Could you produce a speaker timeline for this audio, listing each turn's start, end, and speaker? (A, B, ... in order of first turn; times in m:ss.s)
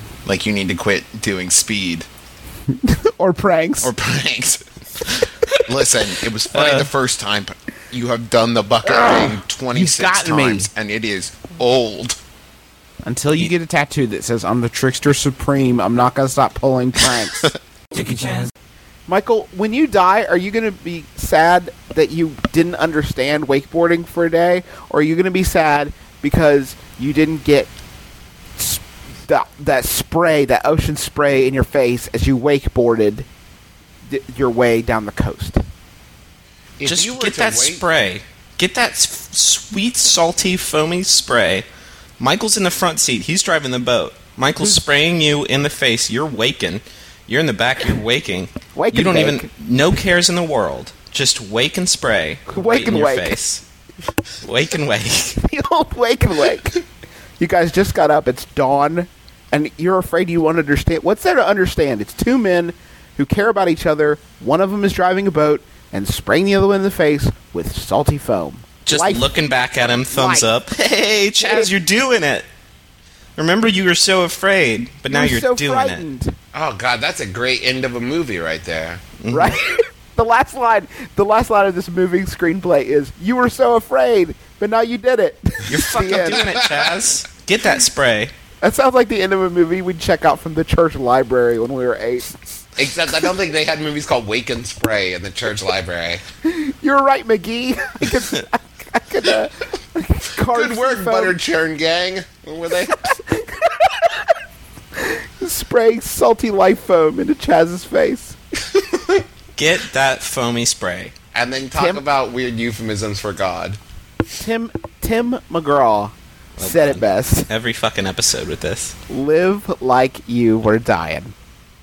0:00.3-0:02.1 A
0:02.7-0:03.9 B
0:03.8-0:04.6 A
0:05.6-0:12.2 A
0:06.5-0:06.9 C
0:08.8-0:10.7 B
0:13.0-0:17.5 B
0:19.1-0:27.7 B
0:28.6-0:33.3 B
0:34.0-0:35.6 B
0:36.8-0:37.8 A
0:36.8-0:41.6 C
0:42.2-0:53.6 C
0:48.7-0:49.5 B
0:52.5-0:53.4 B
0:54.4-0:55.4 C
0:55.4-0:56.8 B
0:57.4-1:09.3 B
1:08.9-1:12.4 C
1:10.1-1:10.5 B
1:11.4-1:11.7 B
1:13.4-1:16.0 C
1:15.1-1:16.4 B
1:16.5-1:19.0 A
1:19.2-1:19.6 C
1:19.3-1:26.6 B
1:25.7-1:28.3 C
1:26.4-1:26.7 A
1:28.6-1:32.3 B
1:32.8-1:36.2 A
1:36.4-1:41.4 B
1:40.5-1:43.2 A
1:43.0-1:44.2 B
1:45.0-1:48.4 B
1:49.6-1:51.1 C
1:51.3-1:53.8 A
1:51.7-1:52.0 B
1:54.4-1:57.5 B
1:56.6-1:59.0 C
1:59.1-2:01.3 B